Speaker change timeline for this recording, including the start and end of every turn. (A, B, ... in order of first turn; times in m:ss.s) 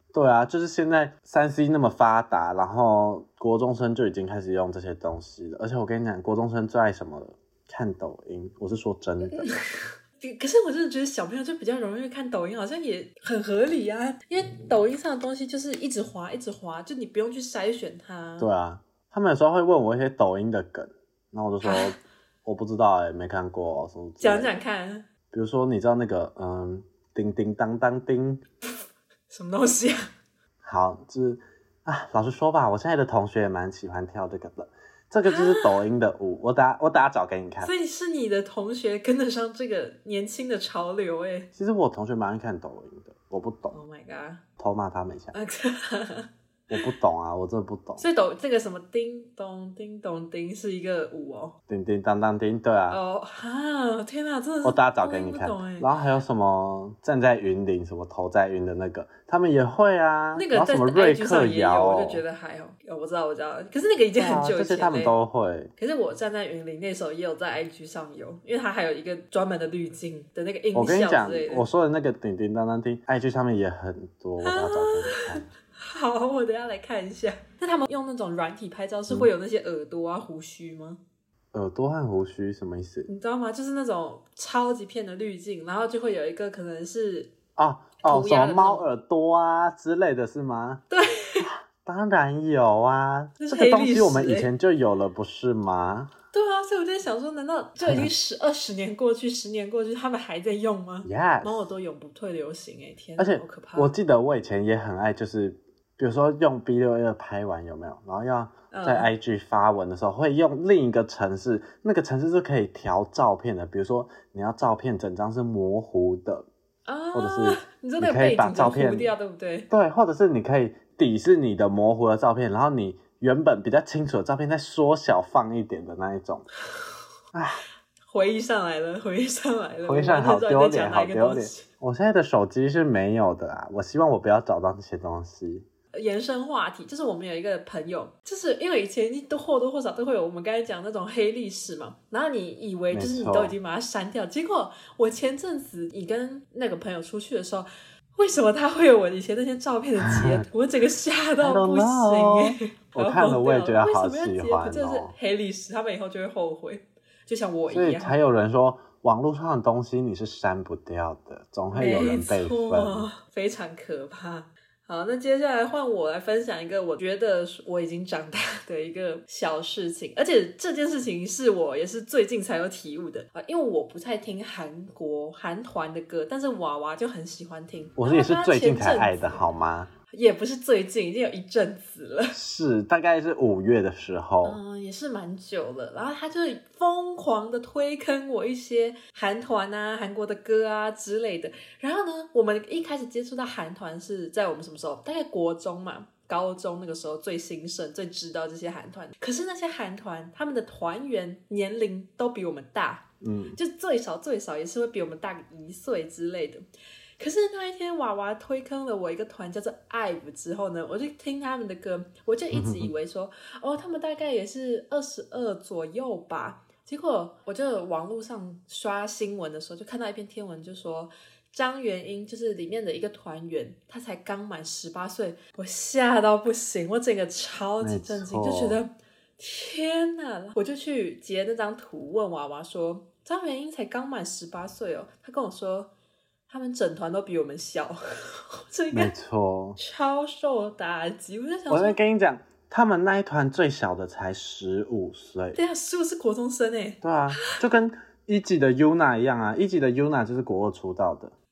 0:00.1-0:09.5 A
0:09.3-0:18.5 B
0:18.4-0:24.5 A
0:21.6-0:22.0 B
0:24.2-0:25.1 B
0:25.3-0:28.4 A
0:29.3-0:30.1 B
0:30.6-0:37.7 A
0:35.3-0:35.8 B
0:37.6-0:41.5 B
0:41.6-0:43.8 A
0:43.7-0:44.4 B
0:44.6-0:45.3 A
0:45.3-0:46.9 B
0:46.7-0:48.0 A
0:48.0-0:51.6 B
0:51.7-0:53.0 A
0:52.9-0:55.9 B
0:54.6-1:02.2 A
1:00.4-1:05.2 B
1:04.2-1:05.7 A
1:05.8-1:11.7 B
1:10.7-1:15.5 A
1:14.4-1:21.0 B
1:21.5-1:23.1 A
1:23.1-1:27.3 B
1:27.6-1:30.8 A
1:28.0-1:28.9 B
1:30.9-1:31.5 B
1:31.4-1:36.1 A
1:33.4-1:34.5 B
1:36.3-1:43.9 B
1:37.8-1:38.1 A
1:41.0-1:41.7 A
1:43.2-1:56.5 A
1:48.7-1:49.1 B
1:56.9-1:59.7 B
1:57.1-1:59.1 A
1:59.7-2:06.5 A
2:07.3-2:07.6 A
2:08.1-2:11.7 B
2:09.8-2:15.7 A
2:15.9-2:38.2 B
2:22.9-2:23.6 A
2:30.1-2:30.4 A
2:31.4-2:35.2 A
2:37.7-2:43.1 A
2:41.7-2:59.4 B
2:58.0-2:59.9 A
3:00.1-3:02.4 B
3:02.3-3:04.6 A
3:04.4-3:26.6 B
3:23.2-3:23.6 A
3:27.2-3:55.9 B
3:32.5-3:32.9 A
3:47.8-3:48.8 A
3:56.5-3:59.1 B
3:58.9-3:59.8 A
3:59.8-4:02.0 B
4:01.7-4:05.6 A
4:05.6-4:07.6 B
4:07.0-4:11.3 A